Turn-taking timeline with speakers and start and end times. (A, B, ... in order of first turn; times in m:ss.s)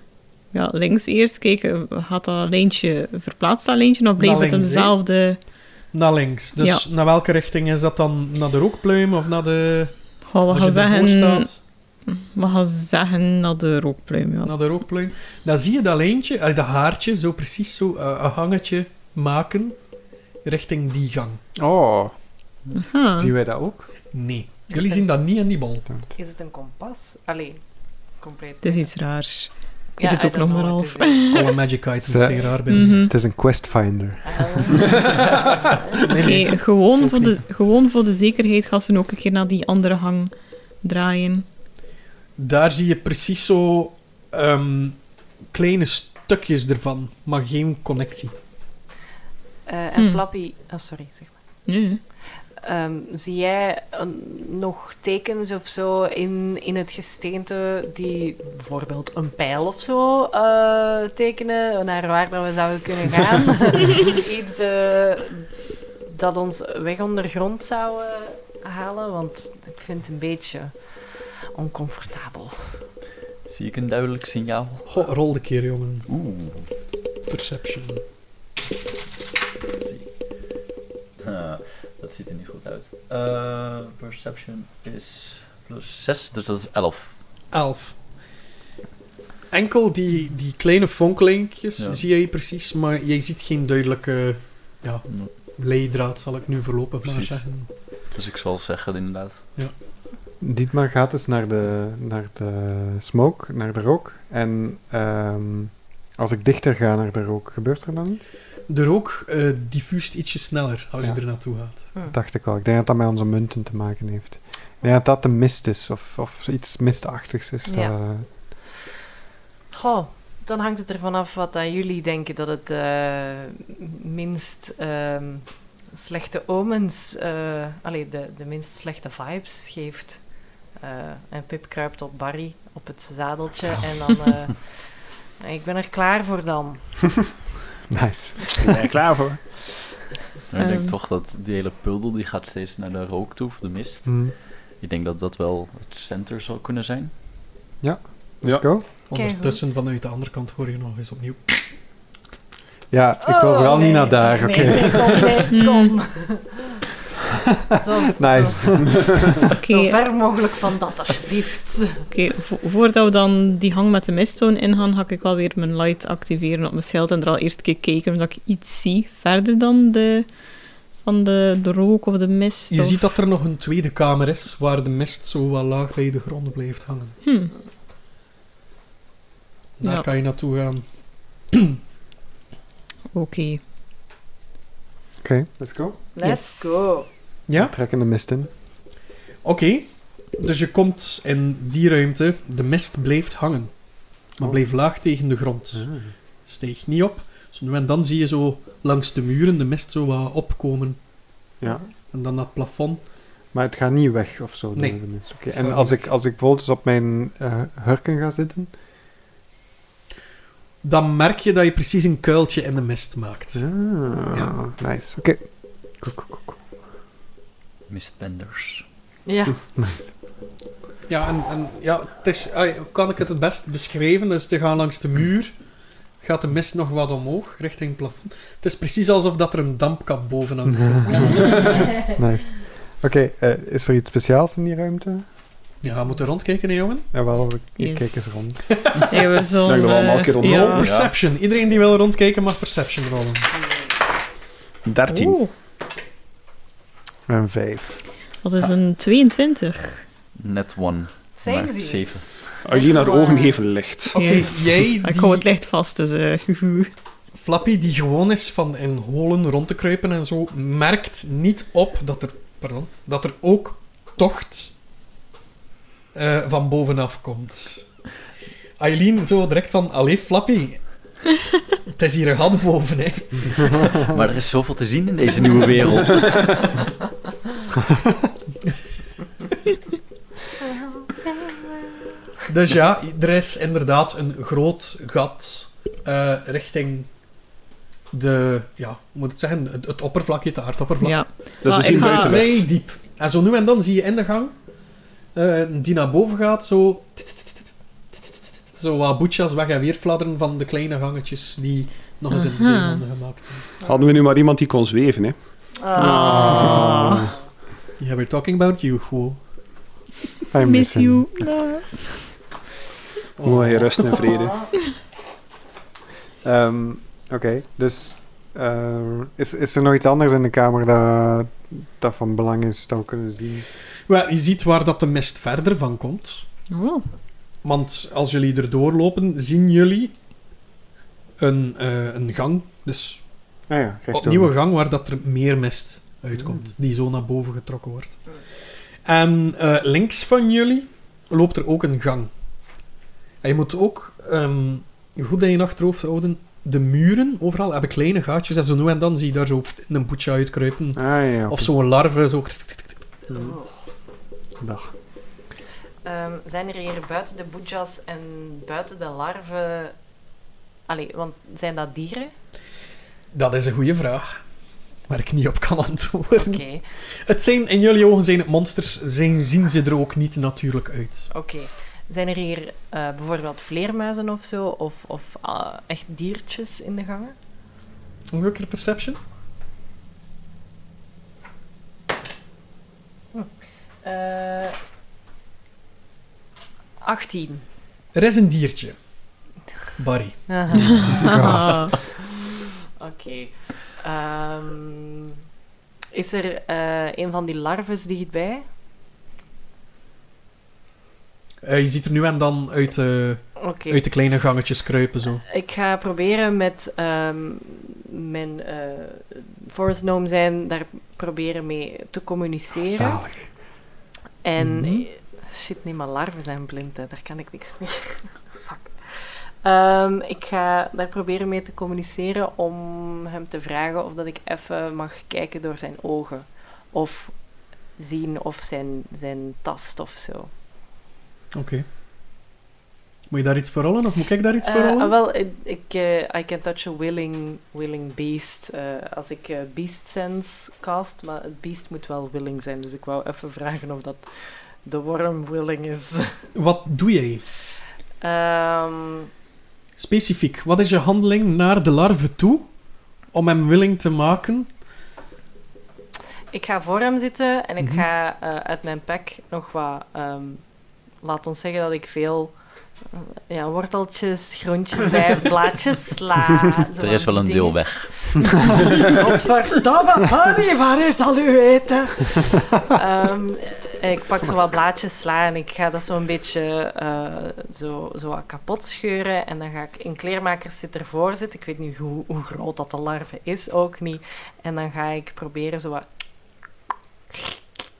0:00.5-0:05.4 A
0:04.2-0:04.9 B
0:05.9-0:09.9 B
0:06.6-0:06.8 A
0:10.3-0:11.5 A
0:10.5-0:11.6 B
0:12.1-0:14.5 A
0:14.4-0:19.8 B
0:20.4-0:21.4 B
0:21.6-0:22.1 C
0:22.7-0:23.3 A
0:23.1-0:23.9 C
0:24.1-0:25.8 B
0:26.1-0:27.6 D
0:28.2-0:28.9 D
0:28.6-0:31.5 A
0:30.0-0:31.3 D
0:31.3-0:33.1 B
0:32.0-0:34.8 C
0:32.7-0:33.1 A
0:34.2-0:36.1 D
0:36.0-0:37.4 B
0:36.2-0:41.4 A
0:42.4-0:45.0 B
0:45.5-0:48.3 B
0:49.6-0:51.3 D
0:50.0-0:50.2 A
0:51.6-0:52.0 A
0:52.6-1:12.6 D
1:13.5-1:14.9 E
1:14.8-1:16.1 B
1:16.1-1:16.7 E
1:17.3-1:18.0 B
1:19.7-1:20.1 E
1:21.2-1:27.1 E
1:27.5-1:28.0 B
1:29.5-1:37.7 B
1:37.0-1:39.4 E
1:40.4-1:48.3 C
1:48.7-1:51.8 B
1:51.8-1:58.3 C
1:57.6-1:57.9 D
1:59.7-2:16.8 D
2:17.9-2:18.9 C
2:18.6-2:19.4 F
2:20.5-2:27.1 E
2:20.6-2:20.9 A
2:24.0-2:24.3 C
2:27.8-2:28.8 C
2:29.1-2:31.6 B
2:29.1-2:29.6 D
2:32.9-2:35.5 C
2:33.2-2:36.8 D
2:35.5-2:36.0 A
2:37.7-2:42.1 D
2:38.1-2:39.5 C
2:39.5-2:40.0 A
2:42.1-2:50.3 A
2:51.0-2:53.1 A
2:52.7-2:57.2 B
2:57.2-2:57.5 A
2:59.8-3:00.8 B
3:01.5-3:01.8 B
3:03.1-3:03.6 A
3:05.2-3:06.0 C
3:06.1-3:07.1 D
3:06.2-3:06.8 A
3:07.5-3:07.7 B
3:07.5-3:08.5 C
3:09.4-3:13.7 B
3:14.3-3:15.9 B
3:15.7-3:16.1 C
3:16.4-3:21.0 B
3:22.1-3:23.0 B
3:23.5-3:28.7 C
3:24.7-3:26.0 B
3:30.8-3:33.7 B
3:33.6-3:36.6 C
3:37.9-3:38.8 E
3:39.2-3:39.6 D
3:39.7-3:40.1 C
3:41.1-3:45.5 B
3:46.2-3:51.8 B
3:50.7-3:55.2 C
3:51.2-3:52.1 D
3:55.8-3:57.1 B
3:57.1-3:58.6 C
3:57.8-3:58.5 A
3:58.7-3:59.2 B
3:59.0-4:00.9 A
3:59.6-4:00.8 F
4:00.4-4:03.5 B
4:00.8-4:01.1 E
4:04.8-4:05.4 F
4:05.1-4:05.5 A
4:07.3-4:08.0 C
4:08.4-4:10.0 A
4:10.4-4:12.2 E
4:11.4-4:12.1 D
4:12.6-4:14.2 F
4:12.7-4:13.6 D
4:14.1-4:15.4 B
4:14.1-4:16.9 A
4:17.4-4:24.7 B
4:26.1-4:27.9 B
4:28.8-4:30.8 B
4:31.9-4:33.8 B
4:34.0-4:36.7 E
4:41.0-4:41.6 D
4:42.5-4:47.1 B
4:48.1-4:54.5 B
4:51.0-4:52.4 A
4:51.6-4:52.7 F
4:55.3-4:57.7 B
4:58.2-5:03.6 B
5:02.3-5:03.0 A
5:03.8-5:05.4 F
5:05.8-5:07.1 D
5:05.9-5:07.3 A
5:06.0-5:07.3 C
5:08.0-5:09.4 B
5:10.5-5:11.3 C
5:10.6-5:12.2 A
5:13.4-5:14.1 B
5:13.4-5:14.6 F
5:14.2-5:14.7 D
5:16.4-5:23.7 C
5:24.1-5:26.4 B
5:26.7-5:27.0 A
5:27.6-5:30.1 B
5:31.4-5:33.2 B
5:33.7-5:34.5 C
5:34.1-5:38.2 B
5:36.3-5:36.7 C
5:39.0-5:42.3 B
5:43.4-5:53.0 B
5:51.0-5:51.7 C
5:53.3-5:53.7 D
5:54.6-5:54.9 C
5:56.0-5:59.9 D
6:00.9-6:02.3 D
6:03.3-6:04.4 B
6:05.1-6:11.3 B
6:06.4-6:06.8 D
6:11.3-6:17.3 D
6:18.3-6:19.2 B
6:24.0-6:24.8 D
6:27.0-6:27.6 D
6:28.1-6:29.0 B
6:30.0-6:30.9 B
6:30.5-6:31.1 D
6:30.9-6:31.9 A
6:31.2-6:31.9 C
6:33.0-6:35.4 D
6:36.1-6:38.6 D
6:41.6-6:45.4 B
6:43.6-6:44.0 D
6:45.5-6:53.2 D
6:52.8-6:53.5 C
6:54.4-7:07.4 D
6:54.6-6:54.9 B
7:08.0-7:10.5 D
7:11.5-7:11.8 B
7:13.3-7:15.1 B
7:14.6-7:26.3 D
7:26.5-7:27.4 B
7:28.2-7:29.3 D
7:30.0-7:32.7 B
7:33.3-7:34.7 B
7:36.5-7:40.6 D
7:41.2-7:42.5 D
7:43.1-8:06.0 D
7:47.0-7:49.2 E